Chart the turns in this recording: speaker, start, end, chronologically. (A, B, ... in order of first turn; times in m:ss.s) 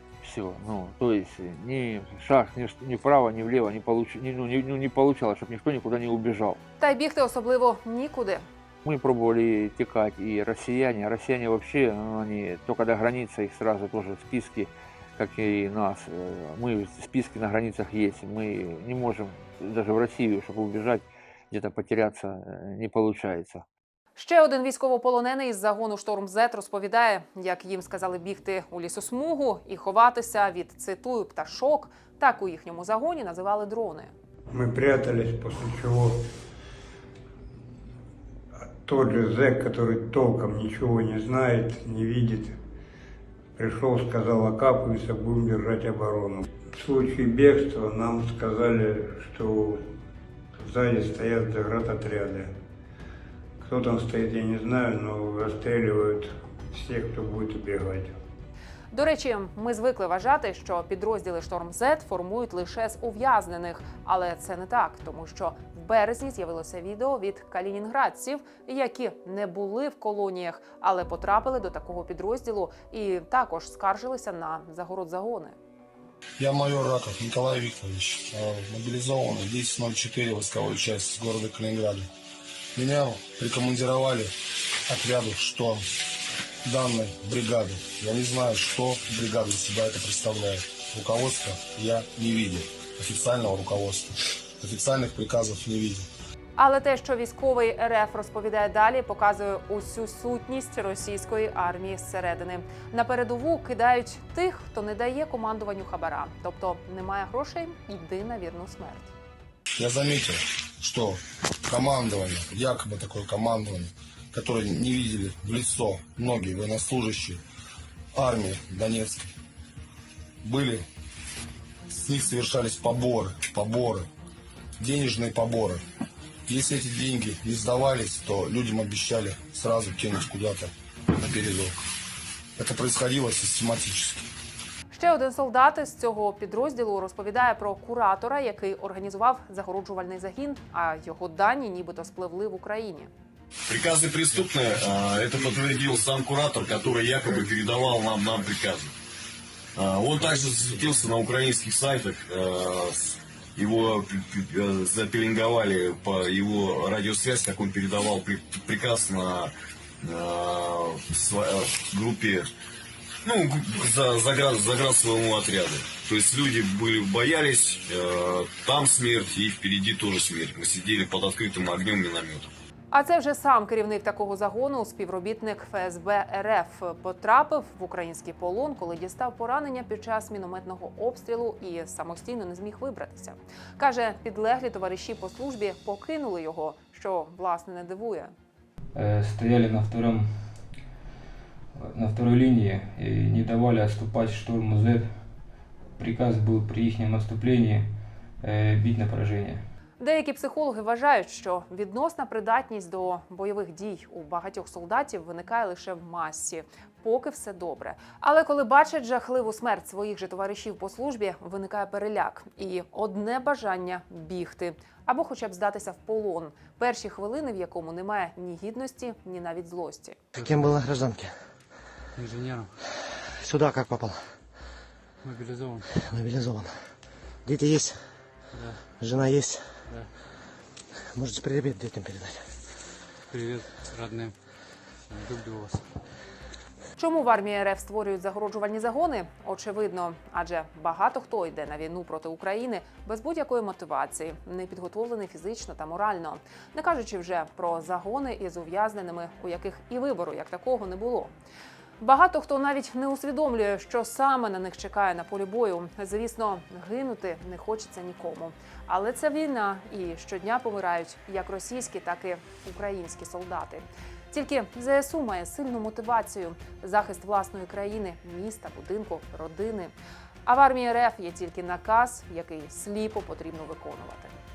0:00.2-0:06.6 A
0:06.8-0:08.4 B
0:08.8-0:23.6 A
0:24.2-0:34.1 B
0:34.5-0:36.2 C
0:38.8-0:42.6 C
0:43.6-0:49.8 C
0:50.6-0:52.5 C
0:53.6-0:58.1 C
0:58.9-1:15.6 B
1:16.4-1:22.1 D
1:22.8-1:24.3 D
1:24.9-1:25.8 D
1:26.6-1:36.1 D
1:36.6-1:49.1 B
1:49.8-1:57.4 D
1:58.2-1:59.3 D
2:00.4-2:00.9 D
2:01.9-2:04.1 D
2:04.8-2:05.8 D
2:06.5-2:11.8 D
2:12.6-2:14.2 D
2:14.9-2:23.1 B
2:23.7-2:28.9 E
2:29.8-2:42.5 E
2:43.2-2:52.5 E
2:52.9-3:08.3 B
3:08.9-3:10.6 F
3:11.8-3:15.3 F
3:16.0-3:19.6 F
3:20.0-3:40.2 B
3:40.3-3:41.4 G
3:42.2-3:42.7 H
3:43.4-3:44.3 G
3:45.2-3:45.9 H
3:45.8-3:46.8 G
3:47.4-3:48.0 G
3:48.5-3:48.8 H
3:48.9-3:50.1 G
3:51.0-3:52.5 G
3:53.3-3:54.4 H
3:55.1-3:56.0 H
3:57.0-4:11.3 B
4:12.0-4:29.9 B
4:30.5-4:34.3 B